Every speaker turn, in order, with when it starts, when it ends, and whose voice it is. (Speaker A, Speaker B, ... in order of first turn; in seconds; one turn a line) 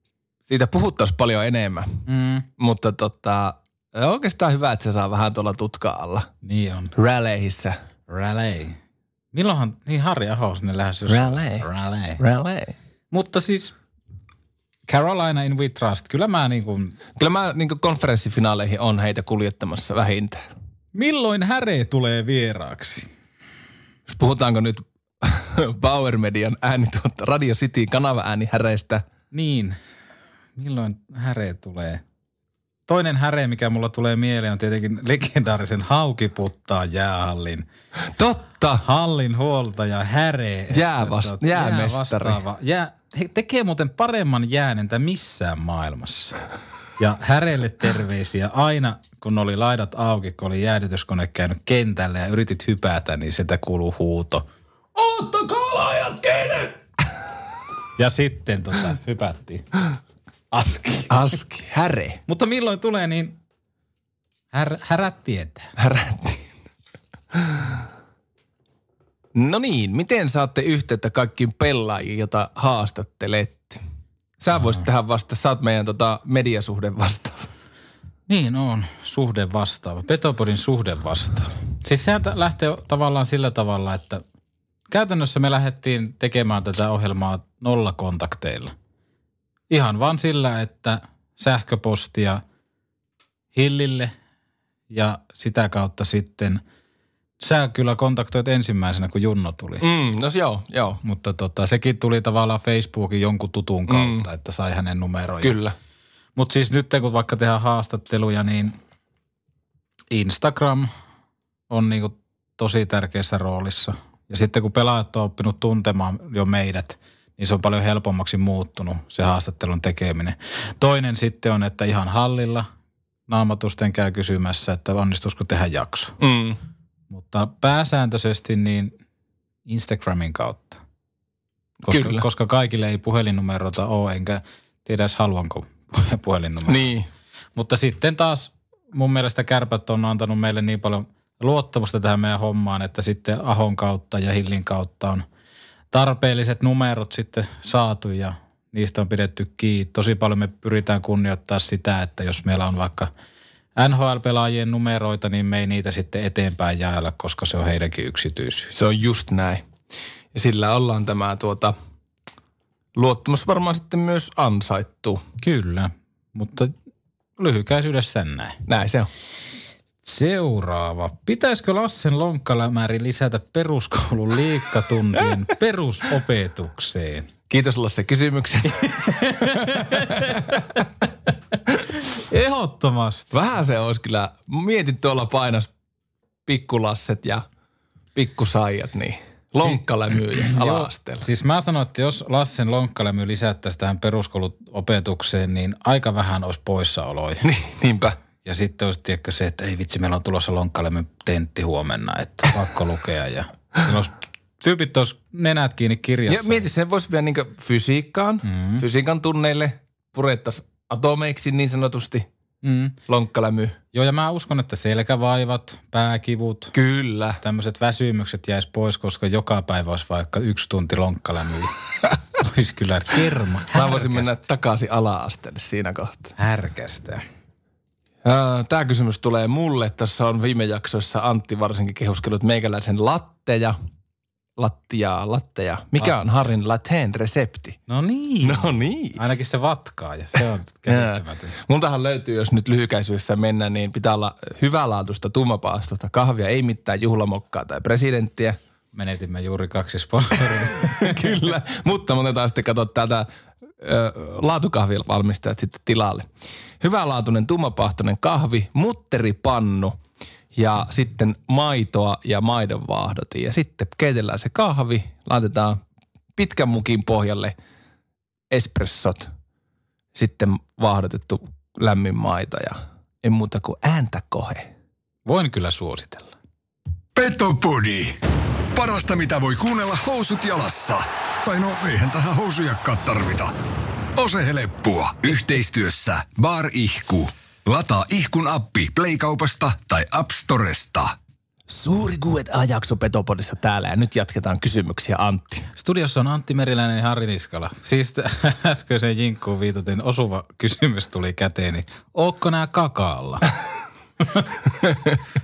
Speaker A: 0.5-2.0
Speaker B: 2.0-2.5
Speaker A: 2.6-6.3
Speaker B: 6.4-6.9
Speaker A: 7.0-7.8
Speaker B: 8.1-8.8
Speaker B: 9.3-12.2
Speaker A: 11.1-11.7
Speaker A: 12.2-12.7
Speaker B: 13.1-13.7
Speaker B: 14.9-17.0
Speaker A: 17.2-20.5
Speaker B: 20.9-23.1
Speaker A: 24.1-29.0
Speaker B: 29.3-29.8
Speaker B: 30.6-32.0
Speaker B: 32.9-37.7
Speaker A: 38.1-38.8
Speaker B: 38.8-46.4
Speaker A: 40.7-42.4
Speaker B: 47.0-54.5
Speaker A: 54.9-56.7
Speaker B: 58.0-59.7
Speaker B: 60.5-61.3
Speaker A: 61.1-62.2
Speaker B: 62.3-63.4
Speaker B: 64.5-65.7
Speaker A: 65.8-66.5
Speaker A: 69.3-73.8
Speaker A: 74.4-77.5
Speaker B: 74.6-74.8
Speaker B: 78.3-84.2
Speaker B: 84.9-88.7
Speaker B: 89.7-92.4
Speaker B: 93.5-94.1
Speaker B: 94.9-96.6
Speaker B: 97.4-99.8
Speaker A: 99.8-101.0
Speaker B: 101.0-105.6
Speaker A: 103.9-104.3
Speaker A: 105.4-105.7
Speaker B: 106.3-108.8
Speaker B: 110.1-110.9
Speaker B: 111.7-122.7
Speaker B: 123.3-126.1
Speaker A: 126.2-126.6
Speaker B: 127.1-128.9
Speaker B: 129.7-130.8
Speaker A: 131.8-132.2
Speaker B: 131.9-136.9
Speaker A: 136.7-137.1
Speaker B: 137.5-145.2
Speaker B: 145.9-153.1
Speaker B: 153.8-158.7
Speaker A: 158.7-159.7
Speaker A: 160.3-161.7
Speaker A: 162.9-165.2
Speaker B: 165.4-166.7
Speaker B: 167.4-168.6
Speaker A: 168.7-169.1
Speaker B: 170.0-177.3
Speaker A: 177.5-180.6
Speaker B: 178.8-181.3
Speaker B: 182.0-183.4
Speaker A: 183.3-185.7
Speaker A: 186.4-187.4
Speaker A: 188.1-191.2
Speaker B: 189.6-197.4
Speaker A: 197.4-198.2
Speaker B: 198.4-206.7
Speaker A: 206.3-212.3
Speaker B: 208.4-208.8
Speaker B: 212.6-213.0
Speaker A: 213.1-213.8
Speaker B: 213.9-216.7
Speaker A: 216.7-217.4
Speaker B: 217.4-221.7
Speaker B: 222.4-224.4
Speaker A: 223.7-226.3
Speaker B: 226.4-227.2
Speaker A: 228.2-233.8
Speaker A: 234.6-237.8
Speaker B: 237.9-241.5
Speaker A: 238.4-239.2
Speaker A: 240.9-248.6
Speaker B: 248.9-251.5
Speaker A: 250.6-253.3
Speaker A: 253.8-256.3
Speaker A: 256.8-260.0
Speaker A: 260.5-265.8
Speaker A: 266.4-267.5
Speaker A: 268.5-269.3
Speaker A: 270.1-274.7
Speaker B: 275.2-276.3
Speaker C: 277.1-278.2
Speaker C: 278.7-283.5
Speaker C: 284.1-291.1
Speaker A: 291.7-295.7
Speaker B: 295.7-303.4
Speaker B: 304.2-304.5
Speaker A: 304.8-305.1